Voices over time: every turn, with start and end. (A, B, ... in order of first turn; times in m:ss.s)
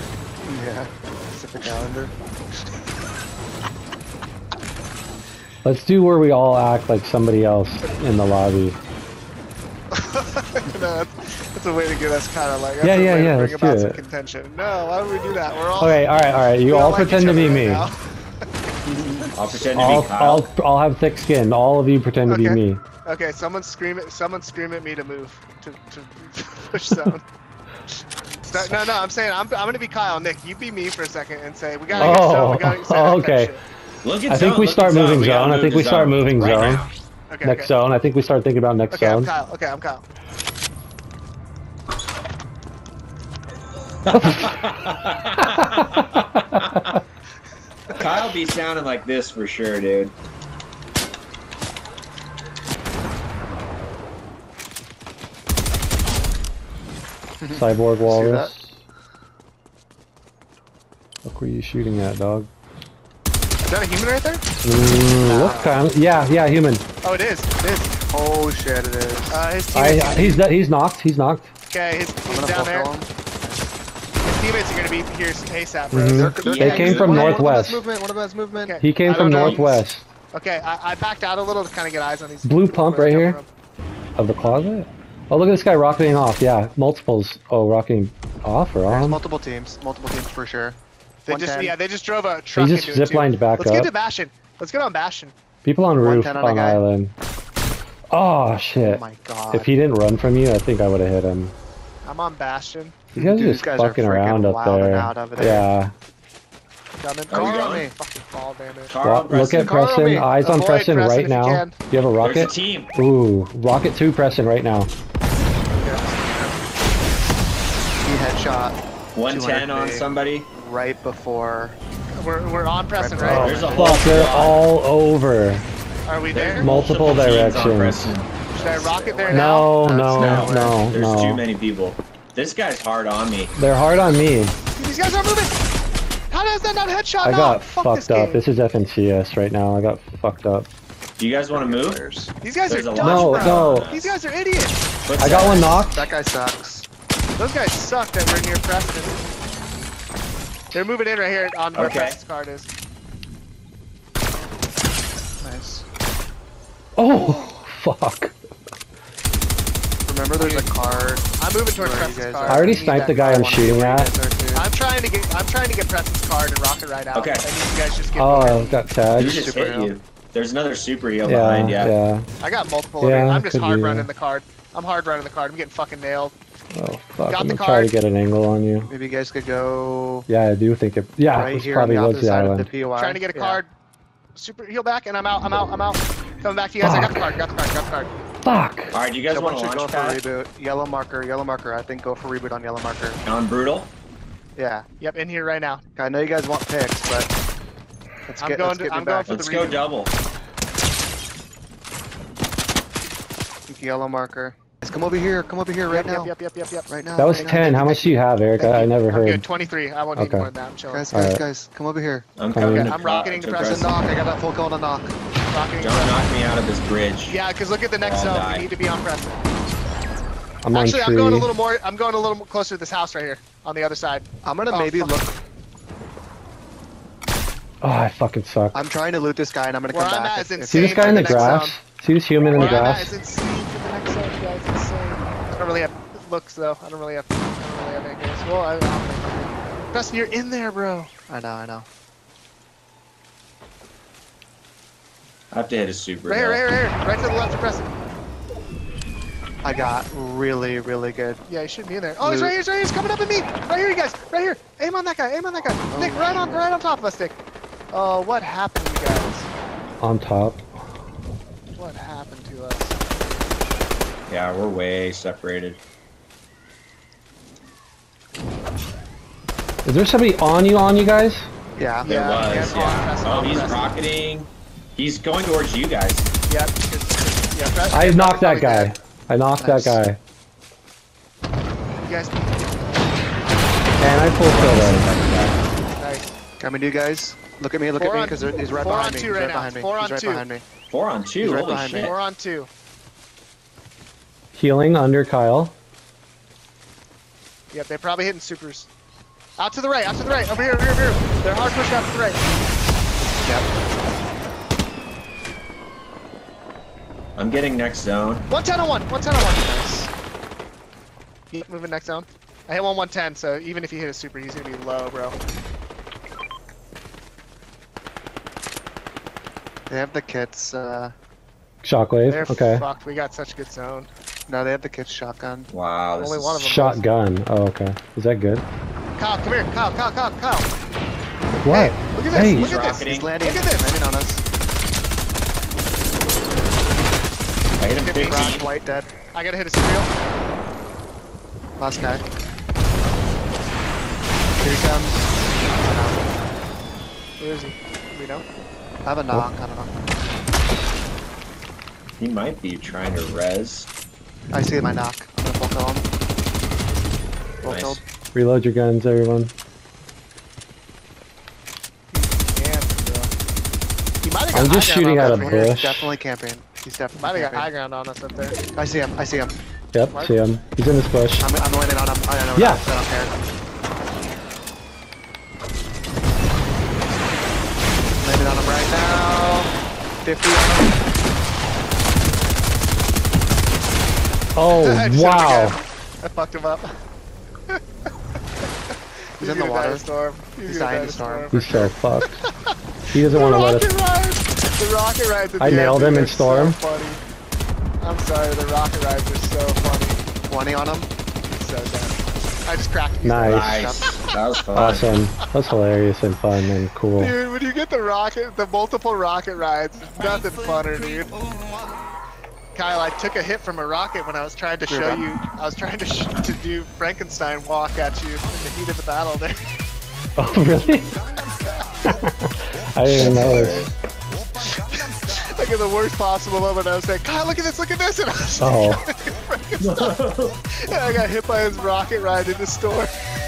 0:00.4-0:02.1 A
0:05.6-0:08.8 B
0:09.9-0:16.0 C
0:12.8-0:14.0 B
0:15.8-0:17.9 B
0:16.6-0:18.0 C
0:18.9-0:19.3 C
0:19.3-0:20.5 D
0:19.7-0:22.8 B
0:22.3-0:27.2 C
0:28.5-0:33.6 C
0:31.9-0:32.2 D
0:32.0-0:33.5 B
0:34.0-0:36.9 D
0:34.3-0:36.8 B
0:37.3-0:37.7 C
0:37.4-0:39.3 B
0:38.9-0:40.0 C
0:44.1-0:46.8 D
0:44.1-0:44.6 B
0:45.4-0:47.0 B
0:47.9-0:50.1 D
0:57.4-0:58.5 A
0:57.5-0:58.7 B
1:01.2-1:02.5 B
1:03.6-1:04.4 C
1:04.6-1:06.8 B
1:05.2-1:05.8 A
1:07.0-1:07.9 C
1:08.1-1:09.4 A
1:09.3-1:10.4 C
1:09.7-1:11.5 B
1:11.7-1:12.9 C
1:12.2-1:13.7 A
1:14.2-1:16.4 C
1:15.9-1:17.8 B
1:16.1-1:18.8 A
1:16.4-1:17.4 D
1:18.5-1:23.5 C
1:18.8-1:20.1 B
1:19.3-1:19.6 A
1:22.4-1:23.4 B
1:24.2-1:29.2 B
1:28.9-1:30.8 A
1:31.2-1:35.3 C
1:31.3-1:31.8 A
1:32.6-1:33.9 B
1:35.6-1:37.1 B
1:36.0-1:36.8 A
1:38.1-1:41.5 B
1:38.8-1:39.7 A
1:42.0-1:43.0 C
1:43.1-1:45.7 A
1:43.2-1:45.9 B
1:46.9-1:48.9 C
1:47.3-1:47.9 D
1:47.3-1:48.0 A
1:48.9-1:49.7 D
1:49.0-1:54.9 B
1:49.5-1:50.3 A
1:50.4-1:51.8 C
1:52.2-1:52.9 D
1:55.8-1:56.5 C
1:55.8-1:56.7 A
1:58.0-2:01.8 A
1:59.1-2:00.5 D
2:02.1-2:04.0 C
2:03.0-2:04.0 A
2:03.2-2:05.6 B
2:03.3-2:04.6 D
2:06.0-2:06.7 C
2:06.3-2:08.5 D
2:06.6-2:08.1 B
2:08.6-2:10.8 A
2:08.6-2:09.7 C
2:09.3-2:11.4 B
2:10.1-2:13.5 D
2:13.6-2:14.5 B
2:14.8-2:15.6 C
2:16.3-2:18.4 C
2:17.2-2:20.7 B
2:21.2-2:22.0 D
2:21.4-2:22.3 A
2:22.4-2:24.9 C
2:22.7-2:24.2 D
2:23.0-2:23.9 B
2:25.0-2:25.8 D
2:25.2-2:26.1 B
2:25.9-2:26.8 A
2:27.4-2:29.2 C
2:30.7-2:32.7 C
2:31.7-2:32.2 D
2:35.4-2:35.8 A
2:37.0-2:38.3 B
2:40.0-2:41.2 A
2:40.3-2:40.7 C
2:41.4-2:43.1 C
2:41.8-2:44.7 A
2:42.5-2:44.1 B
2:44.5-2:48.8 C
2:47.1-2:47.5 D
2:48.2-2:49.4 B
2:49.1-2:51.9 D
2:49.2-2:49.9 A
2:51.2-2:52.3 B
2:52.4-2:56.3 C
2:53.0-2:54.1 B
2:56.7-2:58.9 B
2:57.3-2:57.9 C
2:58.9-3:00.3 A
3:00.3-3:02.7 B
3:01.3-3:03.6 A
3:03.0-3:03.7 C
3:04.3-3:08.1 C
3:06.8-3:07.4 B
3:08.4-3:08.9 B
3:08.9-3:10.2 D
3:09.3-3:13.2 A
3:13.2-3:13.9 D
3:14.6-3:14.8 A
3:15.0-3:15.8 C
3:16.0-3:17.3 A
3:18.3-3:19.4 A
3:18.4-3:19.8 C
3:19.3-3:20.1 D
3:23.7-3:26.3 A
3:25.9-3:31.0 C
3:26.9-3:27.8 A
3:27.2-3:29.4 B
3:30.2-3:30.5 B
3:30.9-3:32.3 A
3:31.1-3:31.4 B
3:32.4-3:34.0 D
3:32.5-3:32.9 B
3:32.6-3:33.9 C
3:33.7-3:35.2 A
3:35.5-3:36.2 C
3:35.8-3:37.4 D
3:37.3-3:39.4 C
3:38.0-3:38.7 D
3:40.6-3:41.5 B
3:40.7-3:45.2 C
3:44.4-3:45.4 A
3:47.8-3:48.8 B
3:48.7-3:51.6 A
3:49.9-3:51.8 C
3:50.7-3:53.2 B
3:52.5-4:01.1 C
4:01.3-4:01.9 A
4:05.5-4:06.7 D
4:06.3-4:07.9 C
4:09.6-4:11.4 A
4:11.5-4:17.4 C
4:12.2-4:12.6 A
4:15.9-4:16.7 A
4:17.9-4:19.5 C
4:20.0-4:20.6 B
4:21.7-4:23.0 C
4:24.3-4:25.8 D
4:29.8-4:31.5 B
4:31.8-4:33.0 A
4:32.0-4:33.9 C
4:32.0-4:36.3 D
4:36.5-4:38.9 C
4:37.9-4:40.2 B
4:39.6-4:40.0 A
4:42.0-4:43.3 C
4:44.0-4:45.0 B
4:44.4-4:45.6 D
4:45.9-4:46.3 C
4:46.6-4:50.6 A
4:47.9-4:50.4 C
4:50.9-4:52.1 D
4:51.4-4:52.1 A
4:52.0-4:52.7 C
4:54.5-4:55.7 B
4:57.7-4:58.9 C
4:59.6-5:02.6 C
5:07.4-5:08.5 D
5:08.5-5:10.1 C
5:11.5-5:15.4 C
5:19.9-5:21.1 A
5:21.8-5:22.8 B
5:22.3-5:24.1 C
5:24.5-5:25.7 A
5:25.7-5:26.7 D
5:26.2-5:27.0 C
5:26.6-5:28.6 B
5:29.2-5:30.7 C
5:31.6-5:32.7 B
5:31.6-5:34.0 C
5:32.4-5:33.3 D
5:33.0-5:34.4 A
5:37.8-5:38.7 D
5:38.0-5:38.6 C
5:38.3-5:39.1 A
5:39.3-5:40.1 C
5:41.8-5:42.2 A
5:44.6-5:46.4 A
5:47.4-5:48.4 C
5:49.0-5:49.9 A
5:52.2-5:53.9 D
5:54.5-5:56.0 A
5:57.6-5:58.0 A
5:57.6-5:58.0 D
5:58.3-5:59.5 B
6:02.1-6:03.3 C
6:04.2-6:05.7 C
6:04.5-6:06.1 B
6:05.1-6:07.7 A
6:07.2-6:08.6 C
6:08.7-6:09.6 A
6:09.9-6:11.4 B
6:11.4-6:13.3 A
6:12.5-6:12.8 B
6:18.2-6:19.7 A
6:20.2-6:21.0 A
6:24.6-6:25.8 B
6:24.7-6:26.9 C
6:29.4-6:32.4 C
6:29.4-6:30.1 A
6:30.6-6:31.5 A
6:31.5-6:32.4 B
6:33.1-6:33.9 B
6:33.3-6:37.2 C
6:35.6-6:36.8 B
6:38.0-6:40.2 C
6:40.5-6:41.1 A
6:41.5-6:43.9 C
6:43.2-6:43.8 B
6:43.4-6:45.1 D
6:43.5-6:44.2 A
6:44.7-6:47.3 B
6:47.2-6:51.4 C
6:52.7-6:59.6 C
6:54.9-6:55.2 A
7:00.4-7:01.2 B
7:02.0-7:03.9 B
7:03.1-7:03.9 D
7:04.6-7:05.0 A
7:05.1-7:10.2 C
7:08.6-7:09.0 B
7:09.8-7:10.6 D
7:10.7-7:13.1 C